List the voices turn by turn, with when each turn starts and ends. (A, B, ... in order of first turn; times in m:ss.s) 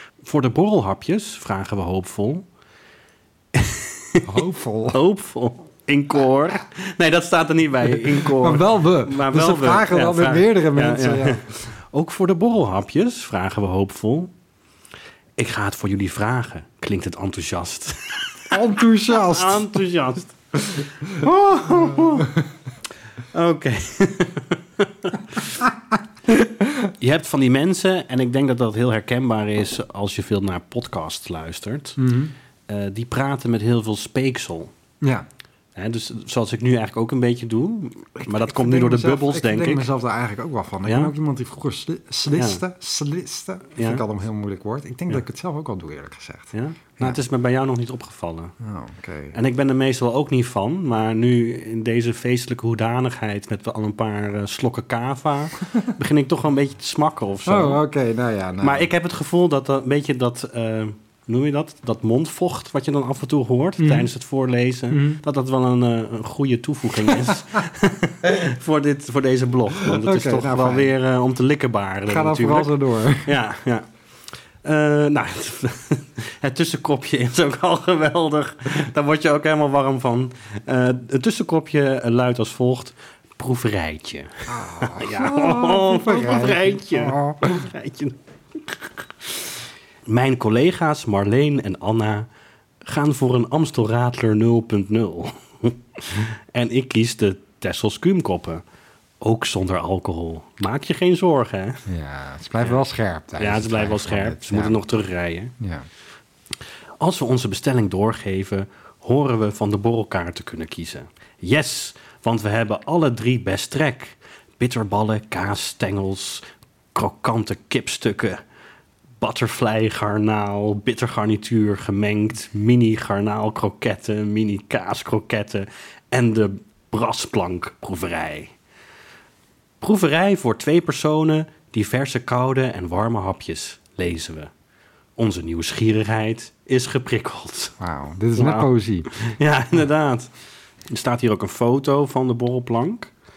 0:00.2-0:02.4 A
0:03.5-0:04.4 A
0:04.2-0:05.0 B
0:04.9-0:14.3 A
0:08.1-0:11.4 B
0:15.4-0:18.5 A
0:18.5-0:19.7 B
0:19.1-0:22.3 A
0:21.2-0:22.4 B
0:23.3-0:25.6 A
0:26.3-0:26.8 B
0:27.0-0:32.0 A
0:32.0-0:32.3 B
0:32.7-0:34.7 A
0:35.0-0:35.2 B
0:35.8-0:39.8 A
0:38.2-0:47.2 B
0:40.8-0:41.1 A
0:42.3-0:42.6 A
0:43.8-0:44.0 A
0:46.5-0:48.5 A
0:48.6-0:49.3 B
0:49.3-0:57.8 A
0:57.4-0:58.9 B
0:58.6-1:13.9 A
1:03.8-1:04.1 B
1:04.9-1:05.2 B
1:09.8-1:10.9 B
1:12.1-1:13.3 B
1:14.6-1:28.2 A
1:24.5-1:27.6 B
1:30.1-1:32.3 A
1:32.8-1:38.6 A
1:39.2-1:41.8 A
1:41.9-1:44.8 B
1:43.4-1:45.5 A
1:45.6-1:45.8 B
1:47.0-1:58.4 A
1:59.2-2:08.5 A
2:09.8-2:14.5 A
2:15.2-2:17.7 A
2:17.8-2:19.1 B
2:18.4-2:20.3 A
2:20.9-2:23.1 A